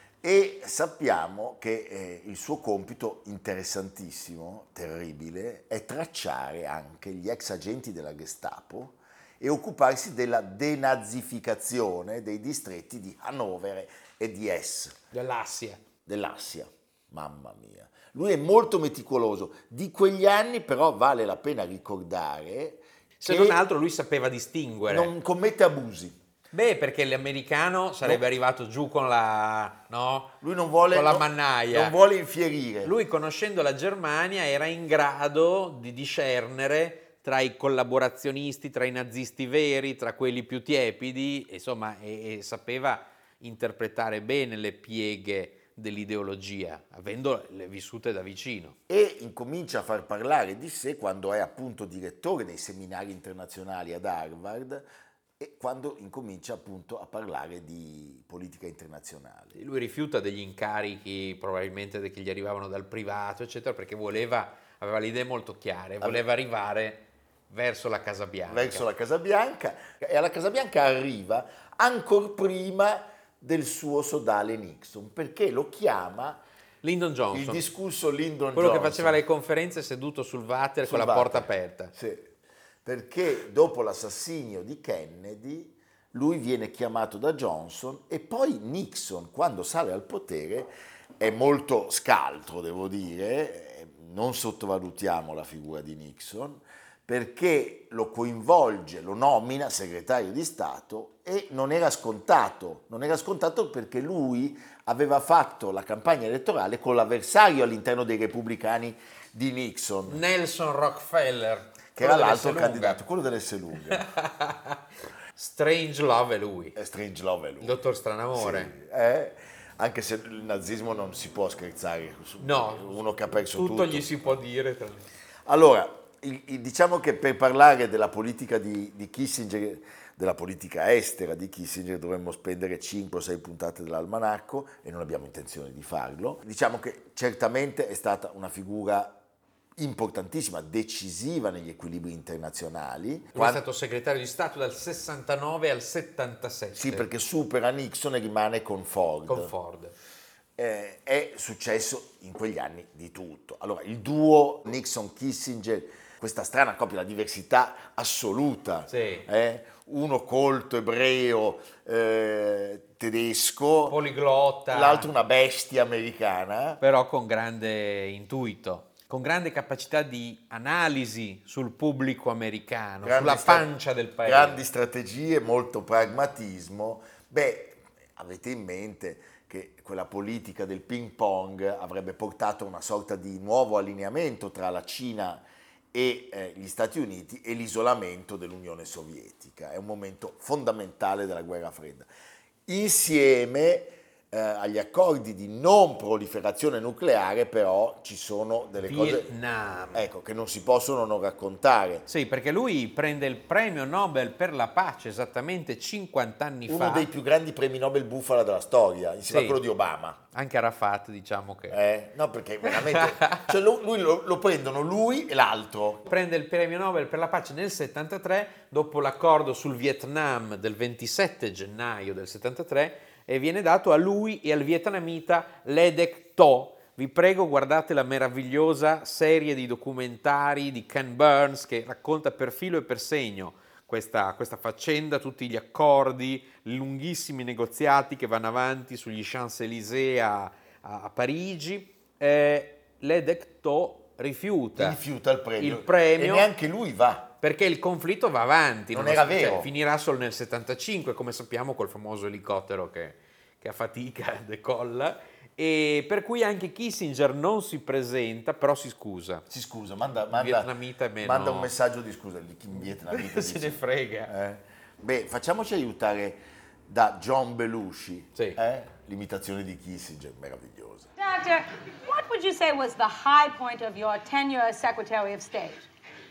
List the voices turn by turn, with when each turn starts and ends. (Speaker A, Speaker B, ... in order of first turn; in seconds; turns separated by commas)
Speaker A: 0.2-15.0, Speaker B: 15.1-15.8, Speaker A: 16.1-23.6, Speaker B: 23.2-25.1, Speaker A: 24.9-26.2, Speaker B: 26.5-30.4, Speaker A: 30.4-33.0, Speaker B: 30.9-31.9, Speaker B: 32.8-48.8, Speaker A: 48.9-54.9, Speaker A: 55.4-59.6, Speaker B: 59.5-68.9, Speaker A: 68.5-76.4, Speaker B: 76.8-77.6, Speaker A: 77.3-79.2, Speaker B: 78.5-81.9, Speaker A: 80.8-82.3, Speaker A: 82.8-110.2, Speaker B: 110.1-113.0, Speaker A: 112.0-114.1, Speaker B: 113.9-114.8, Speaker B: 115.4-116.8, Speaker A: 116.8-117.8, Speaker B: 117.6-118.7, Speaker A: 118.3-124.4, Speaker B: 122.4-123.0, Speaker B: 123.5-125.1, Speaker A: 125.5-139.2, Speaker A: 139.8-143.6, Speaker B: 143.3-147.1, Speaker A: 146.8-149.5, Speaker B: 149.3-149.9, Speaker A: 150.6-164.0, Speaker B: 158.9-159.3, Speaker B: 163.9-165.1, Speaker A: 164.7-166.8, Speaker B: 166.8-174.6, Speaker A: 173.0-192.1, Speaker A: 192.7-199.3, Speaker B: 198.8-200.0, Speaker A: 199.9-202.1, Speaker B: 202.1-207.1, Speaker A: 206.7-210.2, Speaker B: 209.3-209.6, Speaker B: 210.3-211.8, Speaker A: 211.7-216.1, Speaker B: 212.7-213.5, Speaker B: 216.1-245.0, Speaker A: 244.8-247.3, Speaker B: 245.6-246.5, Speaker B: 247.4-259.4, Speaker A: 248.9-249.7, Speaker A: 259.5-271.1, Speaker B: 260.3-261.7, Speaker B: 263.1-264.3, Speaker C: 271.2-275.9